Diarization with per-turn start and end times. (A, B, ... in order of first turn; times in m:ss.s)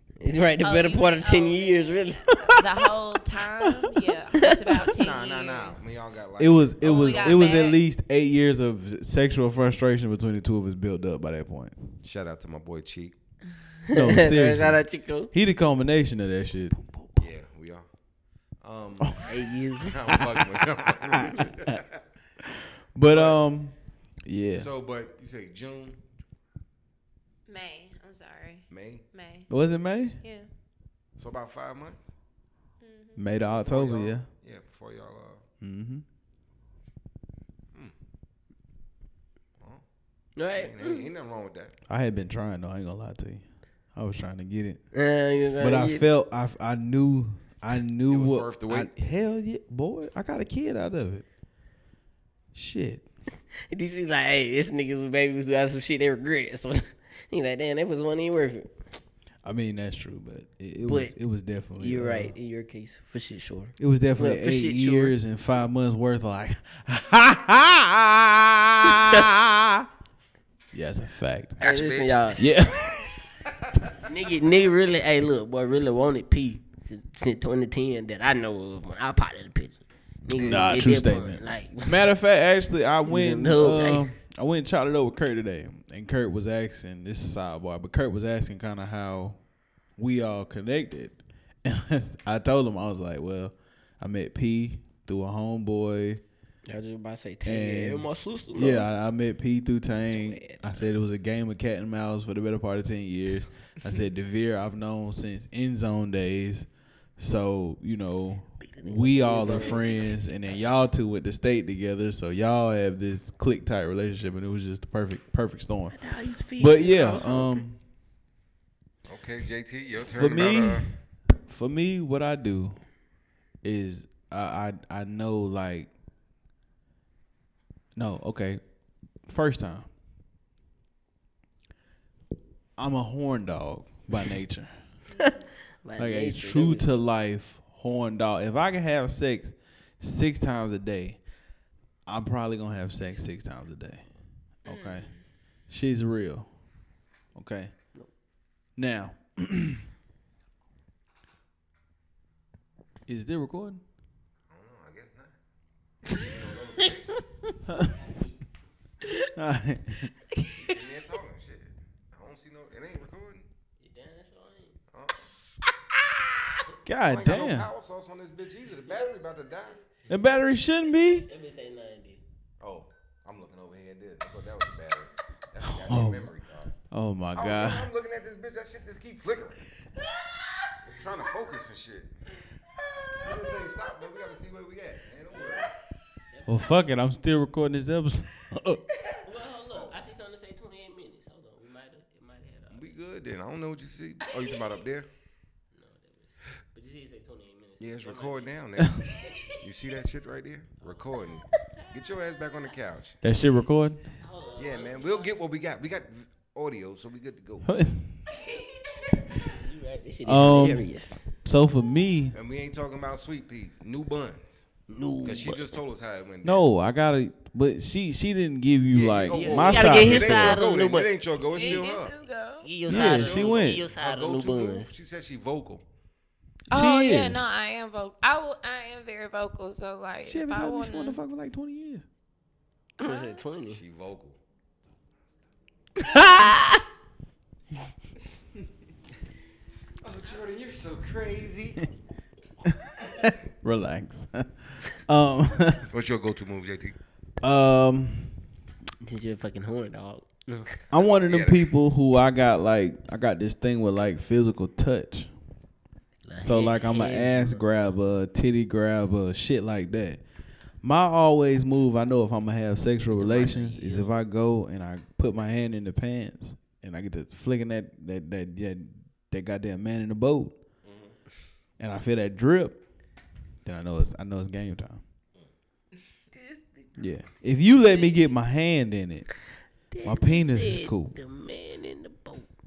0:00.2-0:02.3 A
0:00.6-0:05.8 B
0:02.4-0:02.7 C
0:03.6-0:04.0 C
0:04.9-0:07.6 D
0:06.4-0:11.9 C
0:06.8-0:07.8 B
0:12.0-0:13.1 D
0:13.9-0:15.3 A
0:13.9-0:16.9 C
0:17.2-0:17.8 D
0:18.6-0:19.3 D
0:19.0-0:19.3 C
0:19.2-0:20.0 A
0:19.8-0:22.0 D
0:20.0-0:21.4 C
0:22.4-0:24.7 C
0:23.1-0:23.4 D
0:24.5-0:26.0 D
0:27.5-0:29.5 B
0:28.7-0:29.0 D
0:29.5-0:30.2 C
0:30.2-0:30.5 B
0:31.2-0:32.1 D
0:32.8-0:33.2 B
0:33.2-0:34.2 C
0:33.6-0:35.4 D
0:35.6-0:36.0 C
0:40.4-0:41.1 A
0:40.5-0:41.7 D
0:41.9-0:43.4 C
0:43.9-0:44.8 C
0:44.9-0:46.1 A
0:45.6-0:51.2 C
0:48.1-0:48.9 D
0:52.5-0:53.0 C
0:53.7-0:58.7 A
0:59.4-1:02.3 C
1:00.8-1:01.1 A
1:01.8-1:05.1 A
1:03.8-1:09.9 C
1:10.7-1:11.6 C
1:11.6-1:12.4 D
1:11.6-1:12.5 A
1:12.4-1:13.1 C
1:14.0-1:22.0 A
1:20.3-1:20.9 D
1:20.4-1:29.4 C
1:23.0-1:24.1 A
1:30.0-1:36.2 C
1:36.6-1:38.9 A
1:37.4-1:46.7 C
1:39.9-1:40.8 A
1:47.2-1:56.0 C
1:48.6-1:50.7 A
1:55.9-1:57.6 A
1:56.6-1:57.8 C
1:59.0-2:00.9 D
2:00.1-2:00.9 C
2:01.4-2:02.8 C
2:03.6-2:05.9 C
2:07.9-2:08.6 C
2:09.2-2:09.9 C
2:12.8-2:14.7 C
2:15.2-2:16.9 A
2:16.0-2:21.2 C
2:22.1-2:24.0 C
2:24.6-2:25.1 C
2:24.6-2:25.2 B
2:25.7-2:26.5 C
2:27.3-2:27.7 C
2:28.8-2:29.8 C
2:33.1-2:33.8 C
2:34.5-2:35.4 D
2:36.1-2:37.2 D
2:37.7-2:37.9 C
2:39.3-2:40.1 C
2:40.3-2:40.8 B
2:40.6-2:43.5 D
2:43.8-2:44.8 A
2:44.9-2:45.3 D
2:46.8-2:47.7 C
2:47.0-2:49.8 D
2:50.1-2:51.3 C
2:51.2-2:52.2 A
2:52.6-2:56.7 D
2:55.6-2:57.9 C
2:57.4-2:59.6 D
3:00.8-3:02.1 D
3:03.2-3:05.7 D
3:05.3-3:05.7 A
3:06.3-3:06.7 A
3:06.5-3:08.8 C
3:09.2-3:12.9 A
3:09.7-3:10.0 D
3:12.7-3:15.1 D
3:15.7-3:18.6 A
3:17.8-3:23.2 D
3:23.2-3:24.0 C
3:24.2-3:25.4 A
3:24.6-3:27.7 D
3:27.6-3:28.2 C
3:29.2-3:31.2 A
3:30.2-3:32.3 C
3:32.3-3:34.7 D
3:34.9-3:35.7 A
3:35.2-3:36.7 D
3:36.4-3:40.6 C
3:38.9-3:42.1 D
3:39.3-3:41.8 A
3:41.5-3:43.1 B
3:42.6-3:44.9 A
3:42.9-3:43.8 C
3:42.9-3:45.8 D
3:46.7-3:47.4 C
3:46.7-3:51.2 B
3:50.2-3:52.0 C
3:53.0-3:53.8 A
3:53.0-3:53.4 B
3:53.7-3:54.4 D
4:00.0-4:01.9 D
4:02.6-4:05.8 C
4:05.9-4:07.0 D
4:07.4-4:08.4 C
4:09.0-4:10.8 A
4:10.9-4:15.3 C
4:10.9-4:11.7 D
4:16.2-4:17.6 A
4:16.4-4:20.2 C
4:20.8-4:30.6 C
4:23.1-4:24.1 A
4:30.8-4:31.1 D
4:31.8-4:32.8 C
4:33.6-4:35.0 C
4:37.0-4:39.3 C
4:39.9-4:42.5 A
4:40.0-4:41.1 C